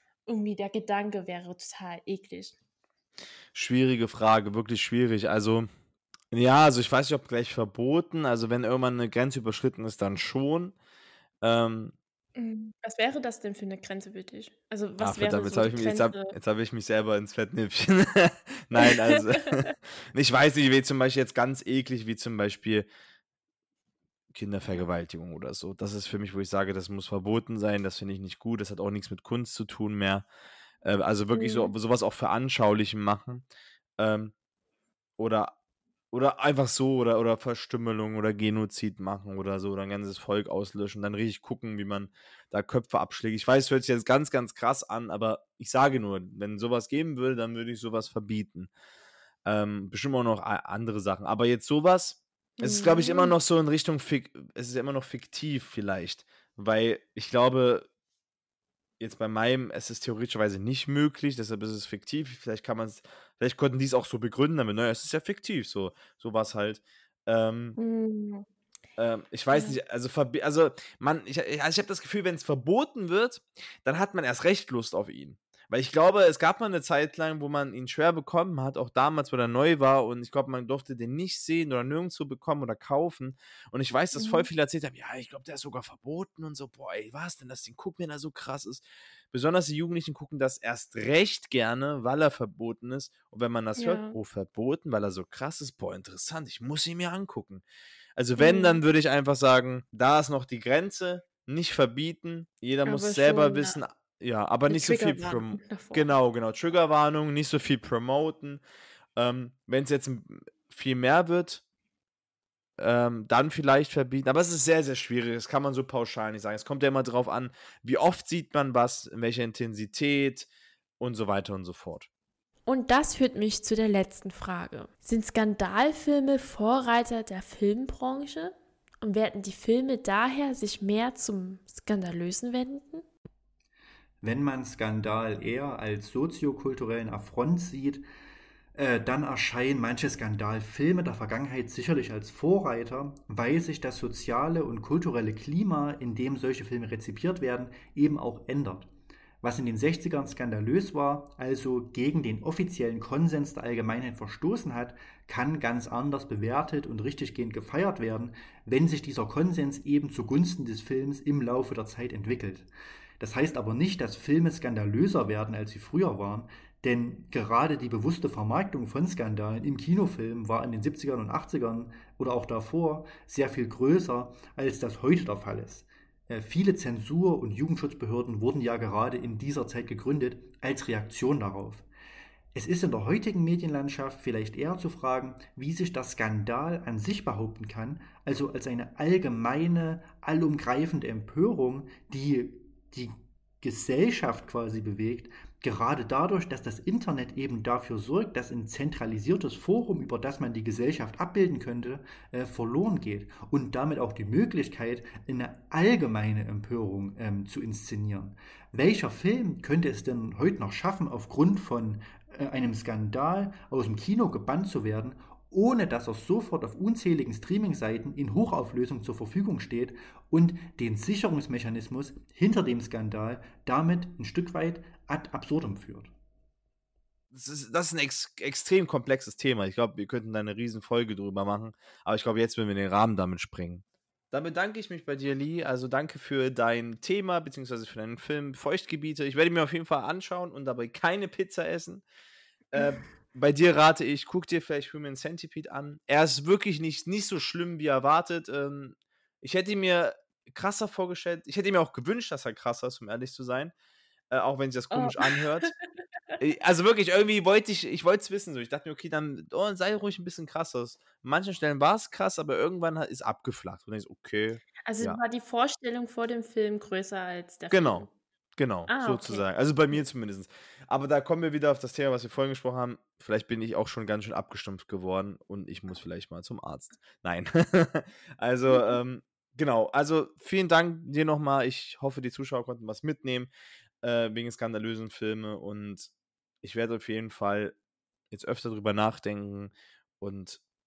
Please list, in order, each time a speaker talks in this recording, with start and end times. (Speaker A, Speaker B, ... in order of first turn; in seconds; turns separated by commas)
Speaker A: 0.3-2.6, Speaker B: 3.5-5.7, Speaker B: 6.3-10.8, Speaker B: 11.4-11.9, Speaker A: 12.4-16.4, Speaker B: 15.0-22.9, Speaker A: 18.8-19.7, Speaker B: 24.3-30.3, Speaker B: 30.8-33.5, Speaker A: 31.3-31.7, Speaker B: 34.0-34.3, Speaker B: 35.2-35.5, Speaker B: 36.1-48.7, Speaker B: 49.5-57.9, Speaker A: 52.6-53.4, Speaker B: 59.0-67.8, Speaker A: 67.8-68.5, Speaker B: 69.0-97.6, Speaker A: 69.5-69.8, Speaker A: 84.2-84.5, Speaker A: 93.8-94.2, Speaker B: 98.2-108.6, Speaker A: 98.4-98.8, Speaker A: 102.9-103.8, Speaker A: 104.7-106.1, Speaker B: 109.2-111.6, Speaker B: 112.8-120.5, Speaker B: 121.0-122.1, Speaker A: 122.7-133.1, Speaker C: 134.2-138.0, Speaker C: 138.8-148.9, Speaker C: 149.4-162.7, Speaker C: 163.2-181.9, Speaker C: 182.5-226.1, Speaker B: 227.3-242.0, Speaker B: 242.7-253.7, Speaker B: 254.3-255.7, Speaker A: 254.9-255.7, Speaker B: 256.4-265.2, Speaker A: 264.9-268.1, Speaker B: 267.7-283.5, Speaker A: 268.9-269.4, Speaker A: 278.7-279.0, Speaker B: 284.0-286.1, Speaker B: 286.6-287.8, Speaker B: 288.3-290.6